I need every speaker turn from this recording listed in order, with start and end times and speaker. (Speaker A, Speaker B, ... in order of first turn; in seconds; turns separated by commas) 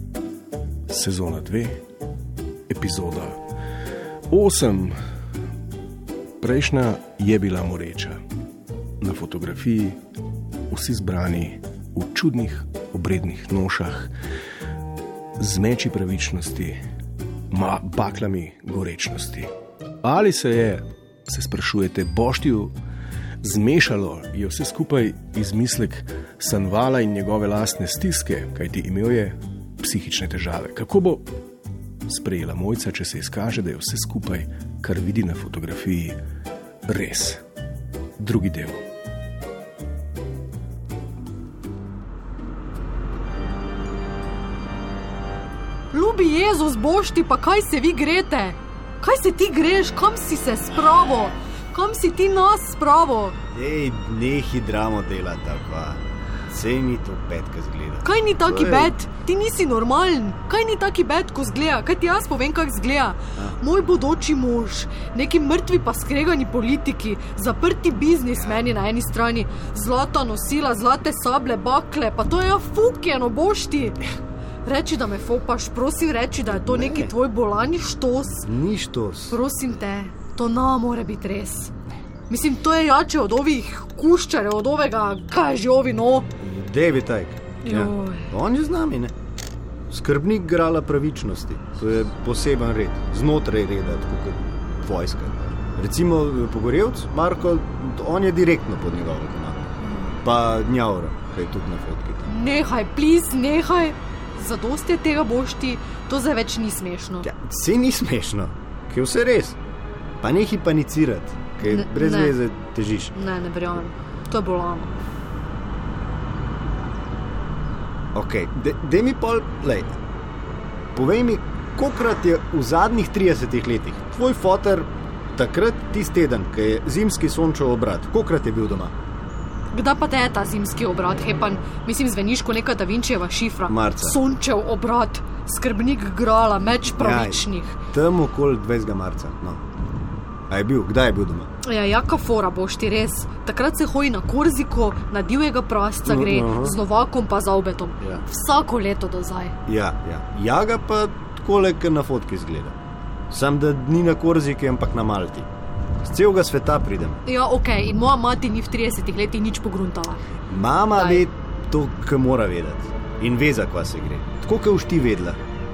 Speaker A: 0.9-1.8, Speaker A: 2.7-3.4, Speaker A: 4.3-4.9, Speaker A: 6.4-8.2, Speaker A: 9.0-10.0, Speaker A: 10.7-14.1, Speaker A: 15.4-16.8, Speaker A: 17.5-19.5, Speaker A: 20.0-22.7, Speaker A: 23.4-31.2, Speaker A: 32.1-36.2, Speaker A: 36.9-37.4, Speaker A: 38.2-38.8, Speaker B: 45.9-53.4, Speaker C: 53.5-59.0, Speaker B: 58.0-74.0, Speaker B: 74.7-78.5, Speaker C: 76.7-77.1, Speaker C: 78.4-79.4, Speaker B: 79.3-81.7, Speaker B: 82.3-86.3, Speaker C: 86.4-89.1, Speaker B: 87.7-88.3, Speaker C: 89.9-99.7, Speaker B: 99.8-100.2, Speaker C: 100.2-102.3, Speaker B: 102.3-107.3, Speaker C: 107.2-109.6, Speaker C: 110.2-113.2, Speaker B: 111.6-112.4, Speaker B: 113.1-114.9, Speaker C: 118.2-119.9, Speaker C: 121.0-128.9, Speaker B: 129.7-137.8, Speaker C: 133.7-134.2, Speaker C: 136.9-139.6, Speaker C: 140.5-141.5, Speaker B: 141.6-149.6, Speaker C: 146.1-146.8, Speaker C: 149.7-152.8, Speaker C: 153.3-155.5, Speaker C: 156.0-157.2, Speaker B: 157.3-160.2, Speaker C: 160.5-165.4, Speaker B: 160.9-161.2